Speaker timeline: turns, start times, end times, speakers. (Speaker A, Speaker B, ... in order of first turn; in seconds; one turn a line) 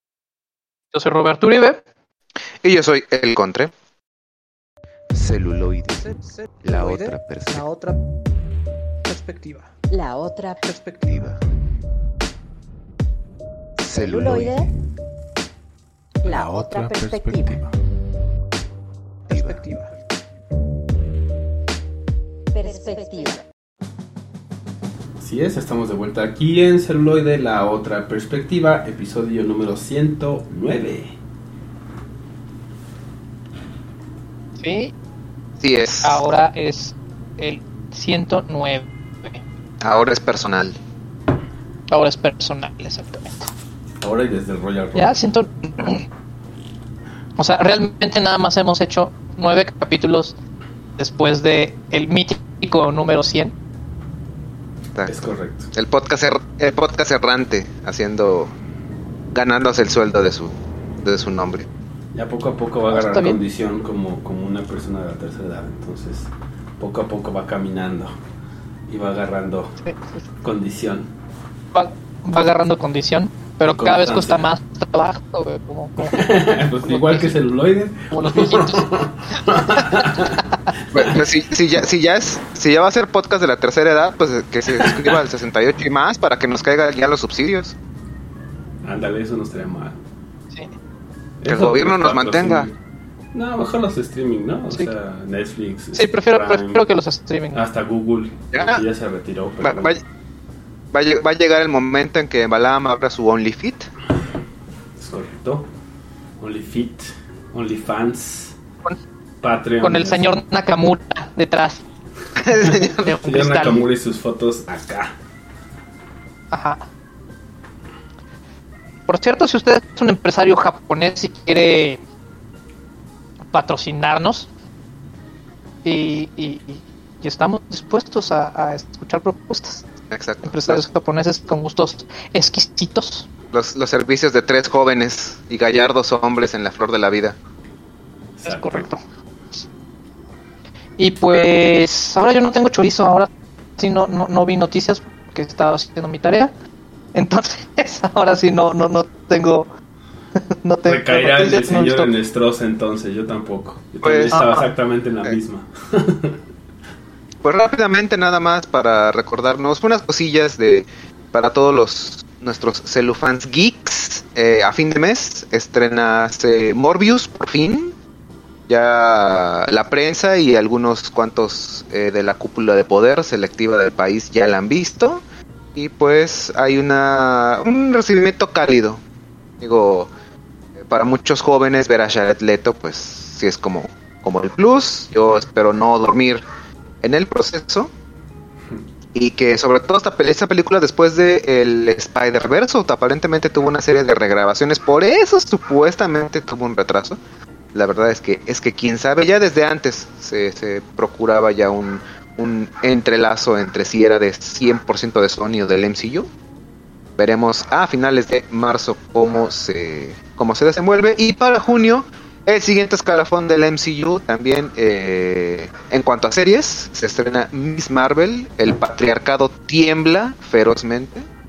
Speaker A: 0.9-1.8
Speaker B: 2.6-3.7
Speaker C: 5.1-6.1
Speaker A: 6.0-8.0
Speaker C: 6.6-7.7
Speaker A: 9.1-9.7
Speaker D: 9.9-10.7
Speaker A: 10.7-11.1
Speaker C: 11.1-11.4
Speaker C: 13.8-14.7
Speaker D: 14.0-14.7
Speaker C: 16.2-17.7
Speaker D: 16.2-17.6
Speaker C: 19.3-19.7
Speaker A: 19.3-19.9
Speaker D: 22.5-23.4
Speaker E: 25.2-31.2
Speaker A: 34.6-34.9
Speaker B: 35.6-36.2
Speaker A: 36.0-39.4
Speaker B: 39.8-40.8
Speaker A: 41.9-43.5
Speaker E: 44.0-45.2
Speaker A: 45.0-46.0
Speaker A: 47.4-50.4
Speaker A: 51.0-53.5
Speaker E: 55.1-55.7
Speaker B: 55.7-58.5
Speaker B: 59.3-61.7
Speaker E: 62.1-68.2
Speaker A: 62.9-63.4
Speaker E: 68.9-69.8
Speaker A: 69.8-70.2
Speaker E: 70.4-71.1
Speaker A: 71.7-77.3
Speaker E: 73.7-74.5
Speaker E: 76.0-81.2
Speaker A: 78.1-79.0
Speaker A: 79.5-80.3
Speaker B: 80.9-87.8
Speaker E: 84.8-85.1
Speaker E: 88.8-90.0
Speaker E: 91.4-92.8
Speaker B: 91.5-92.7
Speaker E: 93.3-96.8
Speaker A: 95.9-97.7
Speaker E: 97.5-100.0
Speaker B: 98.5-98.8
Speaker B: 99.6-100.0
Speaker B: 100.9-103.9
Speaker E: 105.0-105.7
Speaker E: 106.4-108.6
Speaker E: 109.4-110.3
Speaker A: 109.8-111.8
Speaker A: 112.5-113.8
Speaker E: 112.7-115.2
Speaker A: 116.5-116.8
Speaker A: 119.1-122.0
Speaker A: 123.5-124.5
Speaker A: 125.8-129.9
Speaker B: 130.1-130.8
Speaker A: 130.4-133.3
Speaker B: 133.5-137.4
Speaker E: 138.4-138.9
Speaker A: 138.4-139.0
Speaker A: 141.0-146.5
Speaker A: 147.1-149.7
Speaker A: 150.4-152.1
Speaker E: 150.9-156.4
Speaker B: 154.0-154.4
Speaker A: 154.3-154.7
Speaker B: 157.4-167.9
Speaker B: 168.7-175.2
Speaker B: 175.8-179.0
Speaker B: 179.6-180.1
Speaker B: 180.8-186.4
Speaker B: 187.0-187.9
Speaker B: 189.1-197.2
Speaker B: 197.7-206.3
Speaker B: 207.2-221.2